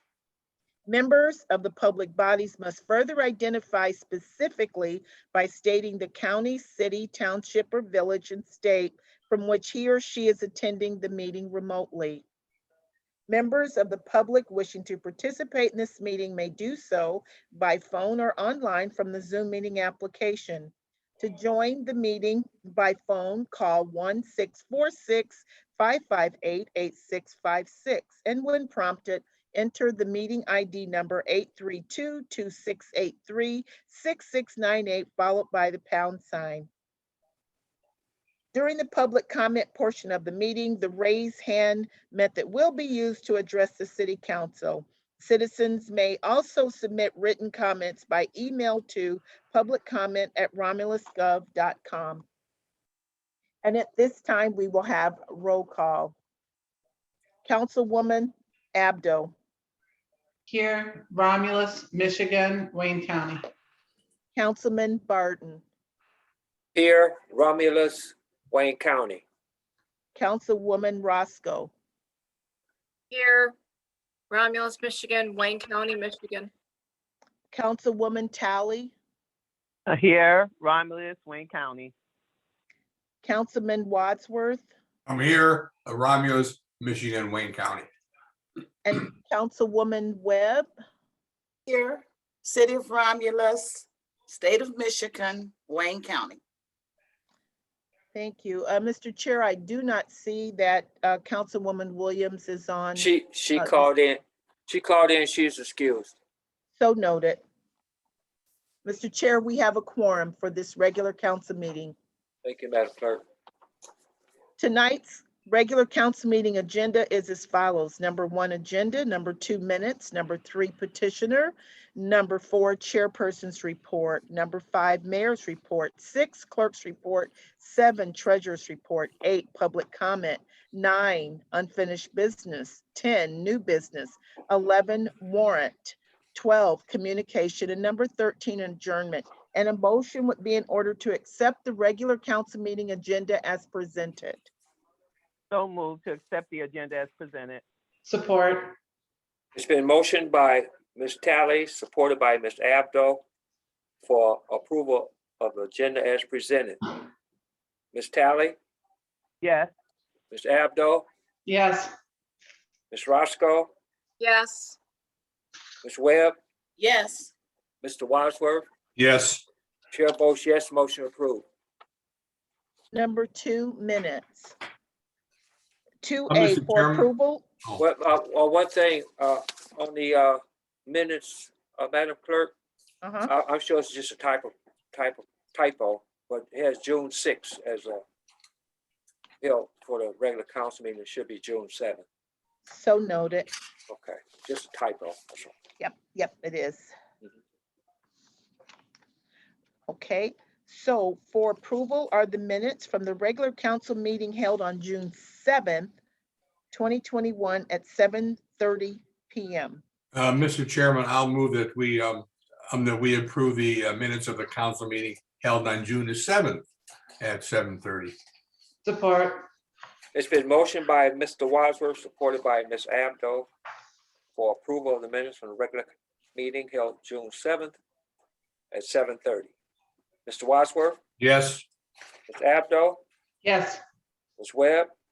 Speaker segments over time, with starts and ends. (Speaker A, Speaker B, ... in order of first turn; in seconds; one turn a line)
Speaker A: 0.8-12.2
Speaker A: 13.3-36.7
Speaker A: 38.5-52.2
Speaker A: 53.6-56.1
Speaker A: 57.4-59.3
Speaker B: 60.5-63.5
Speaker A: 64.3-65.6
Speaker C: 66.7-69.2
Speaker A: 70.1-71.7
Speaker D: 73.1-73.5
Speaker D: 74.3-76.5
Speaker A: 77.5-78.9
Speaker E: 79.9-81.9
Speaker A: 83.2-84.7
Speaker F: 85.0-87.9
Speaker A: 88.8-90.7
Speaker G: 91.7-96.4
Speaker A: 98.1-103.9
Speaker C: 103.0-106.1
Speaker A: 106.8-107.4
Speaker A: 108.8-112.0
Speaker C: 112.4-113.2
Speaker A: 114.6-144.5
Speaker E: 145.5-147.6
Speaker B: 148.1-148.8
Speaker C: 149.5-153.2
Speaker C: 154.0-156.9
Speaker C: 157.9-158.6
Speaker E: 159.4-159.7
Speaker C: 160.3-161.0
Speaker B: 161.4-161.9
Speaker C: 162.9-163.7
Speaker D: 164.2-164.8
Speaker C: 165.8-166.3
Speaker G: 166.8-167.3
Speaker C: 167.8-168.7
Speaker F: 169.0-169.4
Speaker C: 169.9-171.4
Speaker A: 172.9-174.5
Speaker A: 176.0-177.4
Speaker F: 176.3-177.1
Speaker C: 177.8-182.5
Speaker A: 183.0-183.3
Speaker C: 183.2-188.0
Speaker C: 189.4-192.0
Speaker A: 192.6-193.5
Speaker C: 193.9-195.5
Speaker A: 195.8-196.9
Speaker A: 199.9-205.9
Speaker A: 206.7-209.8
Speaker F: 210.1-216.7
Speaker F: 217.2-218.1
Speaker B: 218.8-219.5
Speaker C: 220.1-223.5
Speaker C: 224.3-227.8
Speaker C: 228.7-229.5
Speaker C: 230.2-231.0
Speaker F: 231.2-231.6
Speaker C: 232.3-233.0
Speaker B: 233.4-233.8
Speaker C: 234.4-234.9